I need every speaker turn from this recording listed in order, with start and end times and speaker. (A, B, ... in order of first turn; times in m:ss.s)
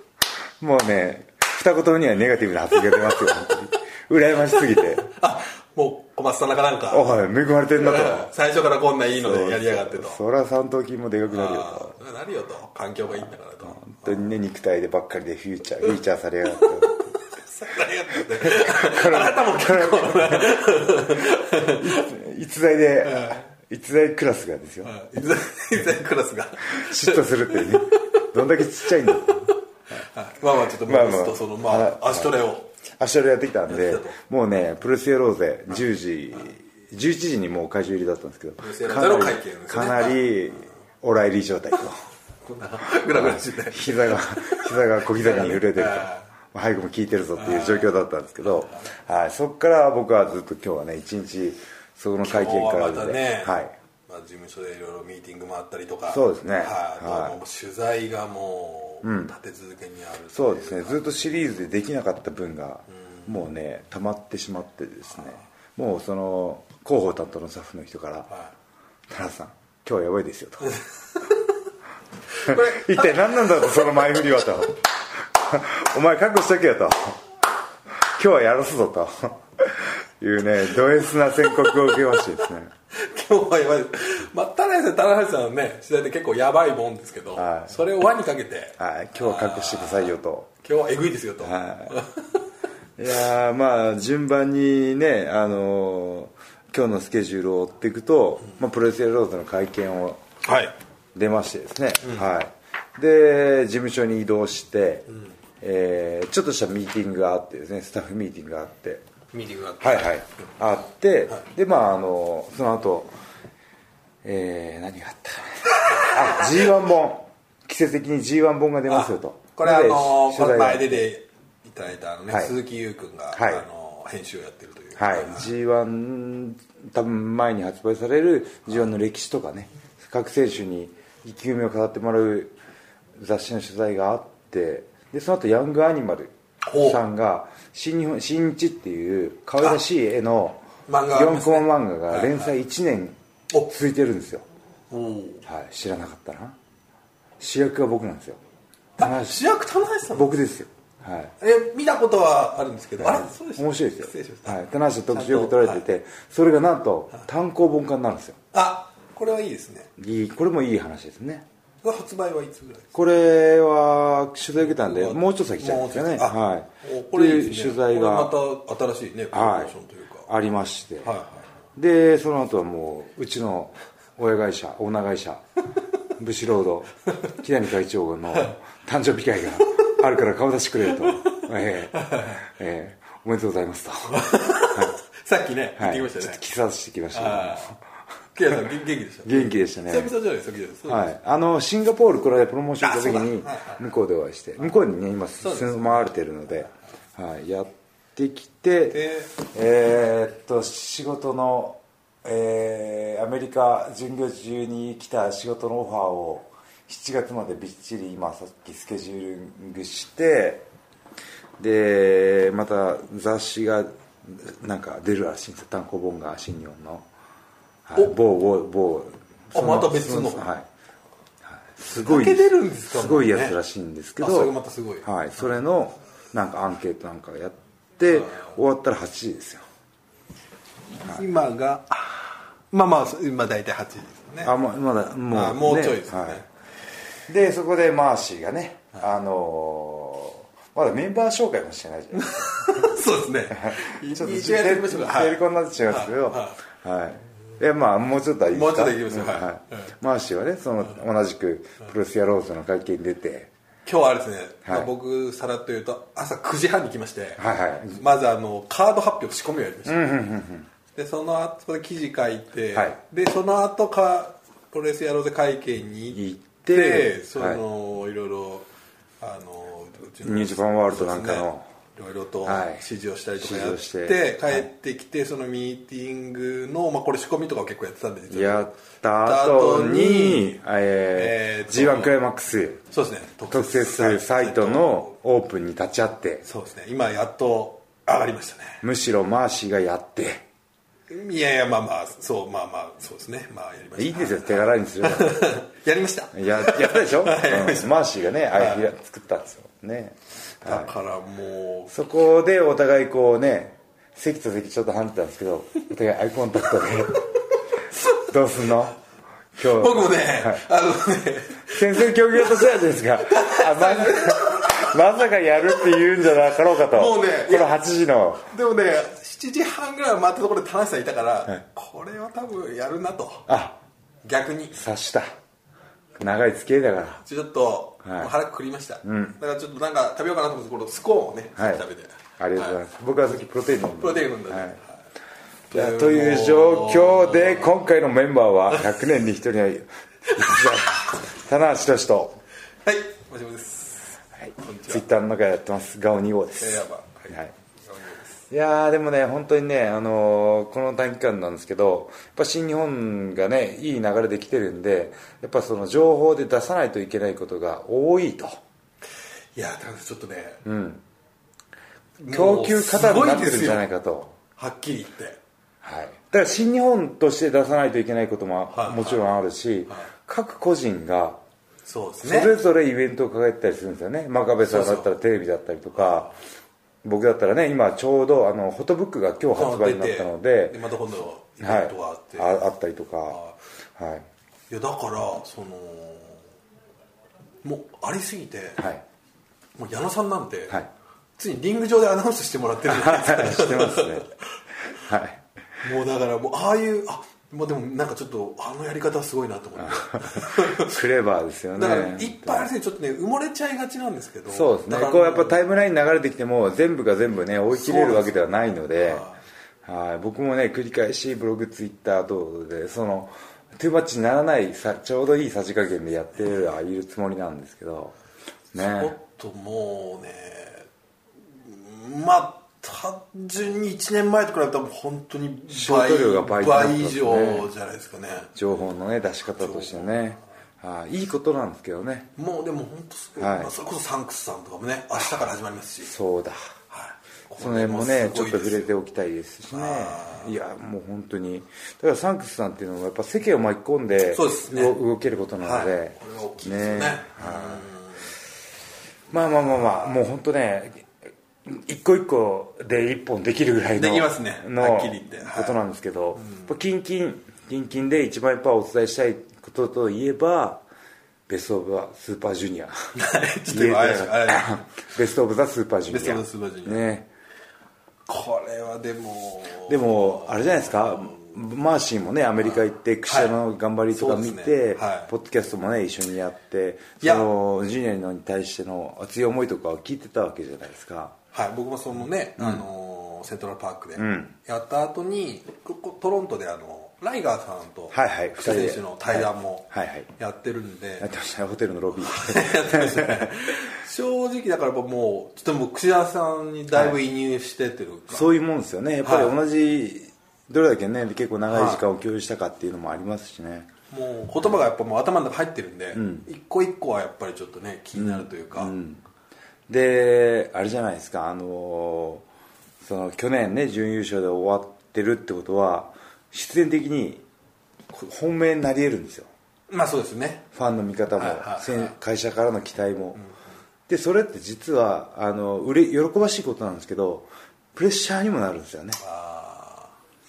0:00.6-0:05.1 A
0:04.4-0:07.1 B
0:06.9-0:08.3 A
0:07.8-0:10.2 B
0:09.1-0:12.0 A
0:11.3-0:14.3 B
0:13.6-0:16.9 A
0:16.6-0:22.1 B
0:18.4-0:24.9 A
0:23.0-0:23.5 B
0:24.8-0:28.3 B
0:26.7-0:29.5 A
0:29.0-0:32.7 B
0:30.8-0:32.3 A
0:33.0-0:42.0 A
0:33.7-0:34.2 B
0:38.6-0:40.3 B
0:42.4-0:46.2 B
0:43.1-0:53.7 A
0:47.4-0:48.0 B
0:52.2-1:01.4 B
0:56.1-0:57.4 A
0:59.0-0:59.3 A
1:00.3-1:08.3 A
1:09.1-1:10.8 A
1:12.3-1:14.2 B
1:12.4-1:17.2 A
1:17.9-1:22.7 A
1:21.5-1:22.2 B
1:22.9-1:32.4 B
1:27.3-1:27.8 A
1:28.8-1:30.5 A
1:31.4-1:32.0 A
1:33.0-1:40.2 A
1:40.4-1:40.7 B
1:41.1-1:45.1 A
1:42.0-1:42.3 B
1:45.6-1:49.0 A
1:49.3-1:50.2 B
1:49.8-1:53.1 A
1:54.2-2:01.0 A
1:55.7-1:56.5 B
1:58.9-2:05.5 B
2:03.3-2:03.6 A
2:05.0-2:12.5 A
2:13.2-2:24.4 A
2:16.6-2:17.0 B
2:20.9-2:22.5 B
2:24.9-2:25.4 B
2:25.4-2:26.6 A
2:27.4-2:28.4 A
2:29.0-2:29.4 A
2:29.0-2:30.4 B
2:30.1-2:31.3 A
2:31.4-2:34.6 B
2:33.0-2:38.4 A
2:35.1-2:35.8 B
2:38.5-2:39.9 B
2:40.0-2:41.4 A
2:41.8-2:43.0 B
2:42.9-2:48.3 A
2:44.6-2:50.3 B
2:49.3-2:49.7 A
2:50.2-2:51.1 A
2:51.0-2:51.5 B
2:51.8-2:55.4 A
2:56.1-3:04.2 A
3:00.9-3:01.4 B
3:01.9-3:02.4 B
3:04.1-3:06.4 B
3:05.8-3:07.8 A
3:07.1-3:07.8 B
3:08.3-3:11.1 B
3:09.2-3:10.1 A
3:10.8-3:30.6 A
3:12.8-3:13.8 B
3:15.4-3:16.2 B
3:18.9-3:19.3 B
3:31.6-3:37.0 A
3:37.9-3:40.7 A
3:39.5-3:40.5 B
3:41.5-3:49.6 A
3:41.9-3:43.6 B
3:44.2-3:45.1 B
3:48.1-3:48.5 B
3:51.0-3:56.5 B
3:54.4-3:56.4 A
3:57.3-4:03.0 A
4:02.1-4:06.6 B
4:03.5-4:13.5 A
4:08.5-4:09.9 B
4:13.8-4:20.0 B
4:17.4-4:18.0 A
4:19.8-4:20.7 A
4:20.9-4:28.7 B
4:26.1-4:27.6 A
4:29.2-4:38.7 B
4:30.2-4:31.6 A
4:32.4-4:32.8 A
4:33.4-4:34.7 A
4:38.3-4:42.8 A
4:39.2-4:40.6 B
4:41.1-4:42.1 B
4:42.9-4:45.1 B
4:43.5-4:46.4 A
4:46.4-4:48.8 B
4:48.8-4:50.4 A
4:51.1-4:58.9 B
4:54.0-4:55.5 A
4:56.3-5:00.9 A
5:00.6-5:01.9 B
5:01.9-5:07.2 A
5:08.2-5:09.0 A
5:09.6-5:10.6 A
5:09.6-5:15.0 B
5:11.7-5:18.5 A
5:16.7-5:17.7 B
5:18.5-5:23.5 B
5:23.5-5:23.8 A
5:24.2-5:24.8 B
5:24.7-5:25.3 A
5:26.2-5:27.2 A
5:27.2-5:32.8 B
5:28.0-5:28.3 A
5:29.0-5:29.4 A
5:31.6-5:31.8 A
5:32.4-5:34.8 A
5:34.0-5:34.9 B
5:35.7-5:37.7 B
5:35.7-5:42.4 A
5:40.3-5:40.6 B
5:42.8-5:45.0 B
5:44.4-5:47.5 A
5:46.6-5:48.4 B
5:48.5-5:58.6 A
5:59.5-6:00.6 B
6:00.6-6:01.0 A
6:02.2-6:03.9 B
6:02.3-6:04.4 A
6:04.6-6:05.4 B
6:05.8-6:11.4 A
6:08.7-6:09.3 B
6:11.8-6:12.5 B
6:12.2-6:16.3 A
6:14.6-6:15.1 B
6:16.0-6:16.3 B
6:17.0-6:20.8 A
6:19.5-6:22.6 B
6:21.6-6:23.4 A
6:23.3-6:23.5 B
6:24.0-6:24.3 A
6:24.7-6:26.4 B
6:27.6-6:28.8 B
6:28.8-6:29.0 A
6:29.8-6:30.8 B
6:31.4-6:34.4 B
6:32.9-6:34.3 A
6:35.0-6:35.4 A
6:35.8-6:41.0 B
6:39.8-6:42.7 A
6:41.8-6:45.6 B
6:44.5-6:49.2 A
6:47.7-6:48.4 B
6:49.0-6:49.4 B
6:49.8-6:58.1 A
6:58.7-6:59.1 A
6:58.7-7:00.9 B
7:01.5-7:08.5 B
7:05.7-7:07.7 A
7:08.6-7:12.3 A
7:09.6-7:10.2 B
7:12.4-7:16.1 B
7:13.4-7:13.7 A
7:16.0-7:16.7 A
7:16.9-7:18.9 B
7:17.6-7:27.9 A
7:19.7-7:20.5 B
7:24.3-7:25.0 B
7:25.6-7:28.3 B
7:29.3-7:31.1 A
7:29.8-7:30.1 B
7:31.6-7:40.8 A
7:34.0-7:35.8 B
7:36.4-7:36.7 B
7:41.5-7:47.3 A
7:43.1-7:44.8 B
7:46.1-7:47.1 B
7:48.3-7:51.5 B
7:49.8-8:01.3 A
7:52.6-7:53.6 B
7:54.1-7:55.3 B
7:57.2-7:57.5 B
8:01.5-8:11.3 B
8:02.6-8:02.8 A
8:04.2-8:04.5 A
8:08.1-8:10.3 A
8:11.2-8:13.5 A
8:12.2-8:18.5 B
8:16.9-8:17.2 A
8:18.3-8:23.9 A
8:19.2-8:19.6 B
8:21.7-8:22.0 B
8:24.1-8:28.9 B
8:26.1-8:26.5 A
8:28.1-8:29.2 A
8:29.9-8:32.4 A
8:33.0-8:37.4 A
8:38.1-8:39.5 A
8:39.9-8:40.6 B
8:40.7-8:43.4 A
8:41.4-8:42.1 B
8:44.1-8:49.2 A
8:49.2-8:50.2 B